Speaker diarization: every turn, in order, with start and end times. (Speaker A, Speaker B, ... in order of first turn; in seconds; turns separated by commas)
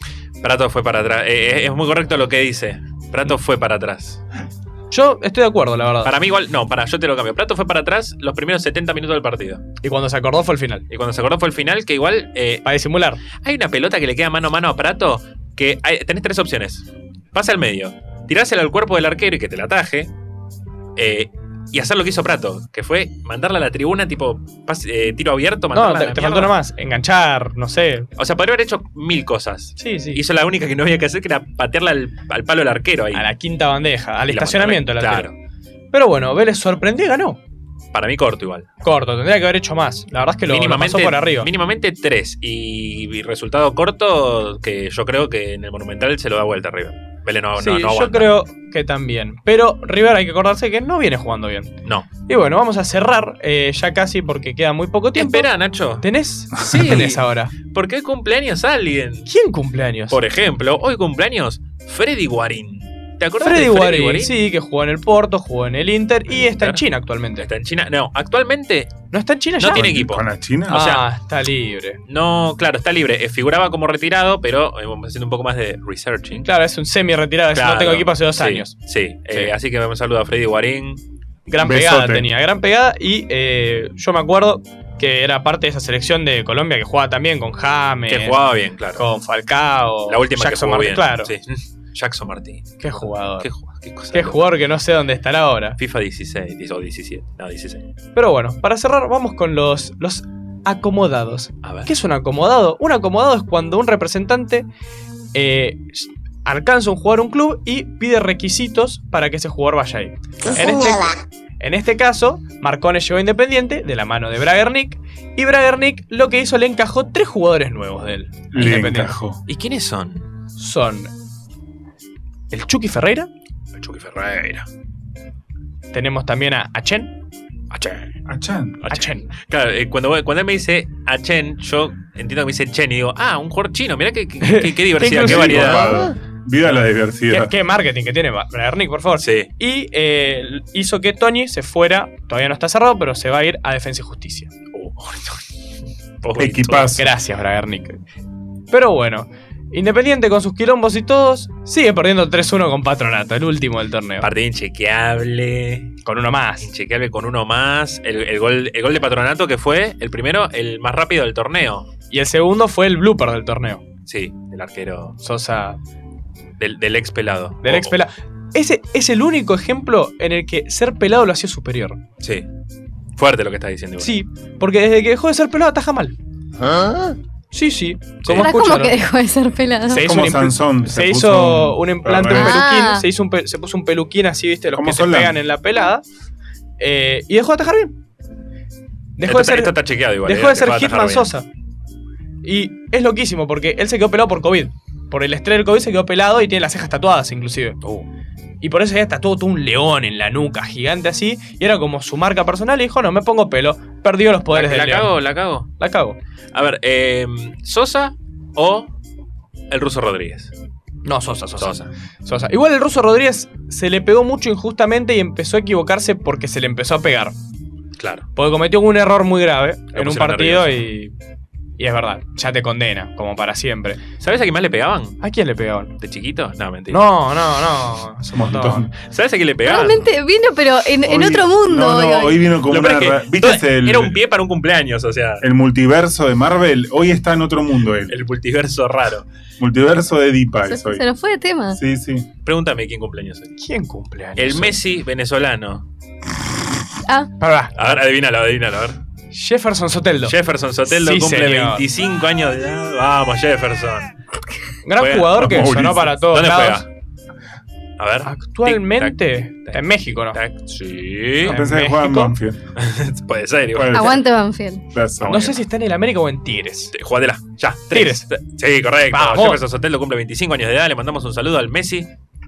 Speaker A: 0.4-4.2, Speaker B: 4.9-6.1, Speaker A: 6.0-9.6, Speaker B: 9.8-10.8, Speaker A: 10.9-12.6, Speaker B: 12.6-13.2, Speaker A: 13.4-20.1, Speaker A: 20.9-26.5, Speaker B: 25.7-28.1, Speaker A: 28.2-33.3, Speaker B: 29.8-30.2, Speaker B: 33.1-35.3, Speaker A: 34.3-35.3, Speaker B: 35.9-37.4, Speaker A: 37.9-38.7, Speaker B: 38.8-41.5, Speaker A: 40.5-48.3, Speaker B: 47.6-57.5, Speaker A: 55.1-59.3, Speaker B: 59.3-60.2, Speaker A: 60.1-64.3, Speaker B: 63.4-67.5, Speaker A: 66.3-66.8, Speaker A: 67.4-69.0, Speaker B: 69.1-70.0, Speaker A: 69.6-71.0, Speaker C: 69.7-70.8, Speaker B: 70.7-72.0, Speaker A: 72.1-76.5, Speaker B: 76.5-78.7, Speaker A: 77.5-81.0, Speaker B: 81.5-88.4, Speaker C: 81.6-82.3, Speaker A: 88.1-89.0, Speaker B: 89.0-91.3, Speaker A: 90.1-92.8, Speaker B: 92.8-93.5, Speaker A: 93.4-94.4, Speaker B: 94.1-95.8, Speaker A: 95.8-97.8, Speaker B: 98.2-104.7, Speaker A: 101.6-101.9, Speaker B: 105.3-119.2, Speaker C: 118.5-119.4, Speaker A: 119.5-120.3, Speaker B: 120.6-121.1, Speaker B: 122.5-123.3, Speaker A: 123.8-124.7, Speaker B: 125.9-127.1, Speaker A: 127.7-128.1, Speaker C: 128.2-128.9, Speaker A: 128.8-135.9, Speaker B: 128.9-129.3, Speaker B: 134.4-136.1, Speaker C: 135.1-137.5, Speaker B: 137.3-144.5, Speaker A: 139.2-139.5, Speaker A: 144.7-145.4, Speaker A: 146.2-147.0, Speaker C: 146.4-147.1, Speaker B: 146.9-148.0, Speaker B: 148.7-154.3, Speaker A: 154.2-155.9, Speaker B: 156.0-156.7, Speaker A: 156.6-161.9, Speaker B: 162.1-163.8, Speaker A: 164.1-165.2, Speaker B: 165.2-165.8, Speaker A: 166.6-167.9, Speaker B: 167.6-172.0, Speaker A: 172.2-172.5, Speaker A: 173.2-174.2, Speaker B: 174.0-176.2, Speaker B: 177.5-179.0, Speaker A: 178.2-178.5, Speaker D: 178.3-180.1, Speaker B: 179.9-186.0, Speaker C: 179.9-182.6, Speaker D: 182.3-183.0, Speaker C: 184.7-185.3, Speaker B: 186.8-187.9, Speaker B: 189.2-191.4, Speaker A: 189.2-191.3, Speaker B: 192.4-197.8, Speaker B: 198.6-205.1, Speaker A: 204.5-205.7, Speaker B: 205.8-206.2, Speaker A: 206.5-208.9, Speaker A: 209.7-210.5, Speaker B: 211.0-217.3, Speaker A: 211.6-211.9, Speaker A: 218.0-218.3, Speaker B: 218.3-221.1, Speaker A: 219.9-220.8, Speaker B: 221.8-224.0, Speaker A: 224.2-225.2, Speaker B: 225.2-225.9, Speaker A: 226.0-227.1, Speaker B: 226.9-228.9, Speaker C: 228.3-228.9, Speaker A: 228.9-230.1, Speaker D: 229.6-232.4, Speaker C: 231.0-234.2, Speaker A: 232.7-235.5, Speaker C: 235.4-238.1, Speaker A: 238.1-239.3, Speaker C: 239.6-241.1, Speaker D: 240.7-241.8, Speaker C: 241.7-242.3, Speaker A: 242.4-243.5, Speaker B: 243.6-244.8, Speaker A: 244.3-245.8, Speaker D: 247.1-247.3, Speaker B: 247.4-247.8, Speaker A: 247.7-249.0, Speaker B: 249.3-251.8, Speaker A: 250.2-254.1, Speaker B: 254.8-256.8, Speaker A: 255.0-256.9, Speaker C: 255.3-256.2, Speaker A: 258.0-261.6, Speaker B: 258.2-260.4, Speaker B: 261.4-262.3, Speaker C: 261.4-262.6, Speaker A: 262.7-264.2, Speaker C: 263.7-264.2, Speaker D: 263.9-264.8, Speaker C: 264.9-265.4, Speaker A: 265.2-265.6, Speaker B: 265.3-266.9, Speaker A: 266.9-272.1, Speaker B: 267.9-268.3, Speaker B: 269.1-269.6